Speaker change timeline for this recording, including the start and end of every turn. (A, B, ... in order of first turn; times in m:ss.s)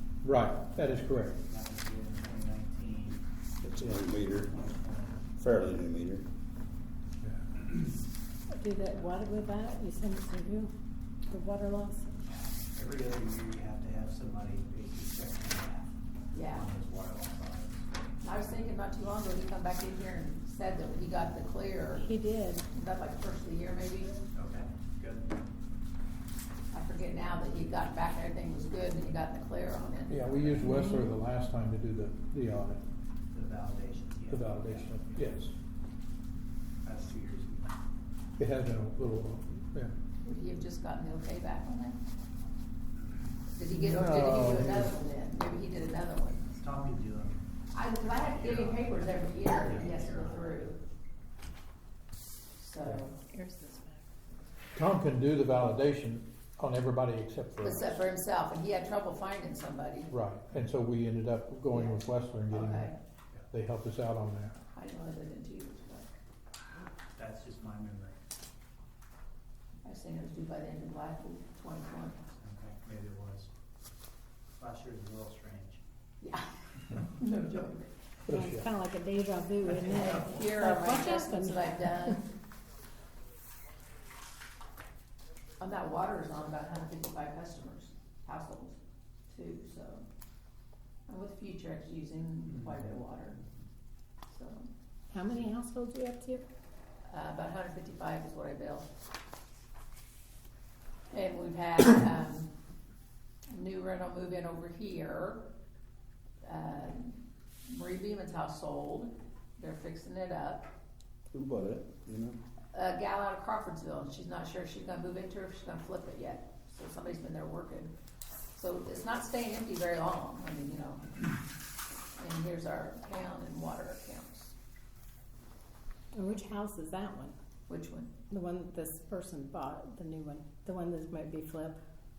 0:00.2-0:01.4 A
0:01.5-0:03.2 B
0:03.6-0:04.5 C
0:04.4-0:05.2 B
0:05.4-0:06.2 C
0:08.5-0:10.7 D
0:11.3-0:12.2 D
0:12.2-0:17.9 B
0:16.3-0:16.6 E
0:18.2-0:22.0 E
0:22.0-0:22.7 D
0:22.7-0:24.2 E
0:24.3-0:25.4 B
0:26.7-0:30.7 E
0:30.1-0:32.8 A
0:30.6-0:31.1 D
0:33.3-0:35.2 B
0:34.3-0:35.5 A
0:36.8-0:37.7 B
0:38.4-0:39.9 A
0:40.2-0:42.0 E
0:43.5-0:46.5 E
0:43.7-0:44.9 A
0:46.5-0:47.4 B
0:47.7-0:50.8 E
0:48.1-0:50.7 B
0:52.6-0:53.2 E
0:53.3-0:54.0 D
0:54.7-0:58.0 A
0:57.6-1:00.1 E
1:00.1-1:02.9 A
1:01.7-1:03.0 E
1:03.5-1:04.6 A
1:04.7-1:06.1 E
1:07.1-1:08.2 B
1:09.8-1:12.2 E
1:12.4-1:13.5 B
1:14.6-1:15.8 B
1:16.2-1:17.9 E
1:18.2-1:18.7 A
1:18.3-1:22.2 D
1:19.9-1:22.3 E
1:25.6-1:28.8 E
1:29.3-1:30.0 E
1:31.1-1:33.4 E
1:34.3-1:34.7 E
1:35.1-1:36.4 D
1:37.1-1:38.9 E
1:41.1-1:42.5 E
1:43.5-1:45.4 E
1:46.4-1:50.7 E
1:51.3-1:52.4 C
1:52.7-1:57.9 E
1:58.5-2:01.1 E
2:02.2-2:04.5 E
2:06.1-2:07.3 D
2:07.7-2:08.1 E
2:08.3-2:11.8 D